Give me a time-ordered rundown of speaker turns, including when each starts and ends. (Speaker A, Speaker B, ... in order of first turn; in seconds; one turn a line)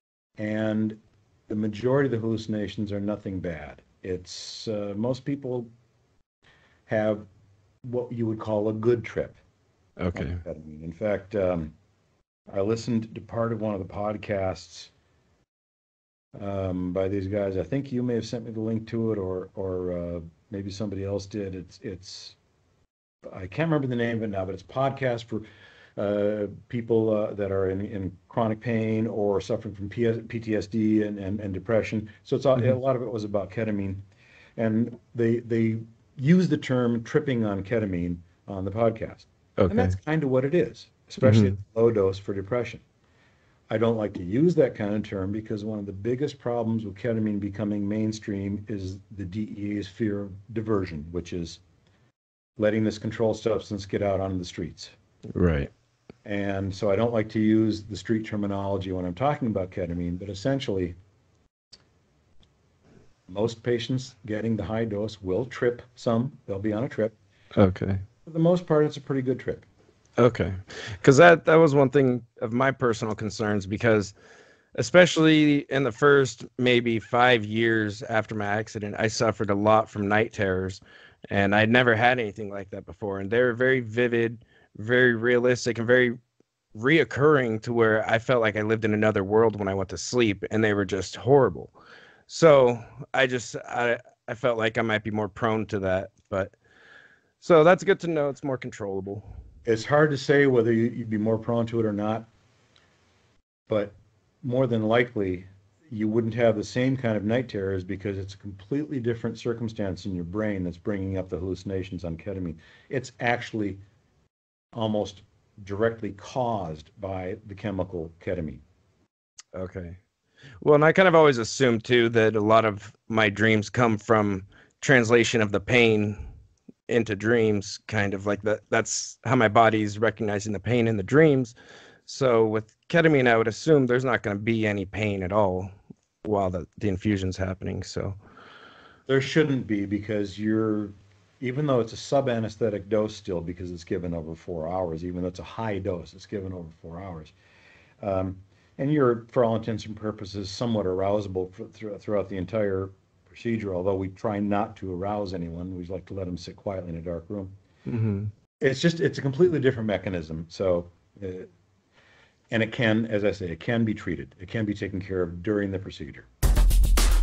Speaker A: 0.4-5.7
Speaker A: 6.9-7.3
Speaker A: 7.8-9.4
Speaker B: 10.0-10.4
Speaker A: 10.1-11.7
Speaker A: 12.5-14.9
Speaker A: 16.3-22.4
Speaker A: 23.3-25.4
Speaker A: 25.9-34.0
Speaker A: 34.6-42.8
Speaker B: 39.6-39.9
Speaker B: 41.2-41.5
Speaker A: 43.7-51.6
Speaker A: 52.6-55.0
Speaker B: 55.3-55.7
Speaker A: 56.2-61.0
Speaker A: 63.3-67.1
Speaker B: 67.6-68.0
Speaker A: 68.2-69.7
Speaker B: 70.2-74.1
Speaker B: 74.8-86.1
Speaker B: 86.7-91.7
Speaker B: 92.3-96.5
Speaker B: 97.4-99.3
Speaker A: 99.7-102.3
Speaker A: 103.7-113.8
Speaker A: 114.7-118.6
Speaker B: 119.5-120.0
Speaker B: 120.6-126.2
Speaker B: 126.9-131.5
Speaker B: 132.1-135.7
Speaker B: 136.2-138.2
Speaker A: 139.1-147.3
Speaker A: 148.0-157.6
Speaker B: 157.8-158.3
Speaker A: 158.6-161.5
Speaker A: 162.5-166.3